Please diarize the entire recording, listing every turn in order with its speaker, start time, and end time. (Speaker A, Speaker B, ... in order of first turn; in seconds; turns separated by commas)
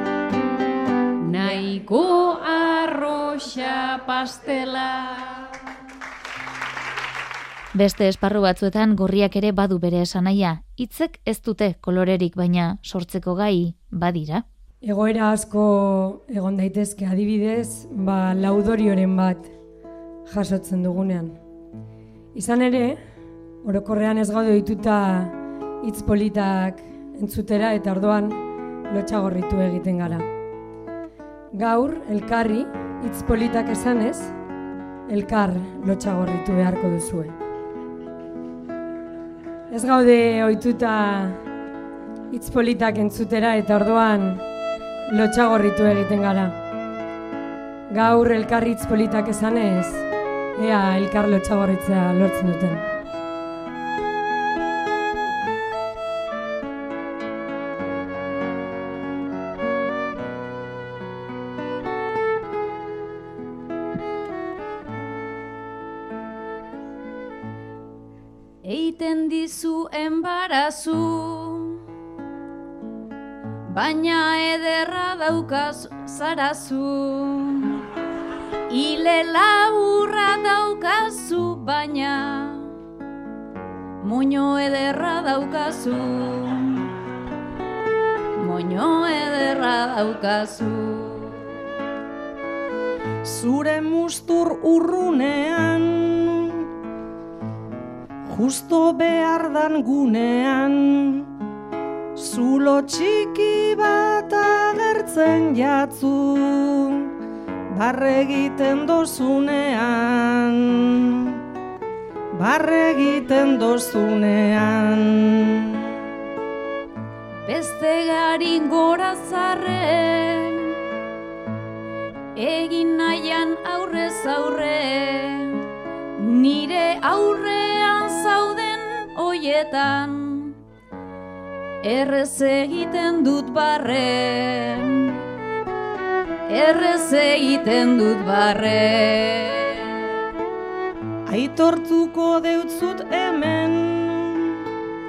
Speaker A: 1.2-5.5, Speaker B: 7.8-14.4, Speaker C: 14.8-19.5, Speaker C: 20.3-21.4, Speaker C: 22.3-23.0, Speaker C: 23.6-30.3, Speaker C: 31.6-34.3, Speaker C: 35.1-37.4, Speaker C: 39.7-41.4, Speaker C: 42.3-44.4, Speaker C: 45.1-46.5, Speaker C: 47.9-52.9, Speaker D: 68.6-71.8, Speaker D: 73.7-77.8, Speaker D: 78.7-82.7, Speaker D: 84.0-86.9, Speaker D: 88.4-91.4, Speaker E: 93.2-96.7, Speaker E: 98.2-101.3, Speaker E: 102.2-107.1, Speaker E: 107.7-111.4, Speaker E: 112.3-115.9, Speaker D: 117.5-120.8, Speaker D: 122.3-125.6, Speaker D: 126.2-130.6, Speaker D: 131.8-135.2, Speaker D: 136.5-139.9, Speaker E: 141.3-144.7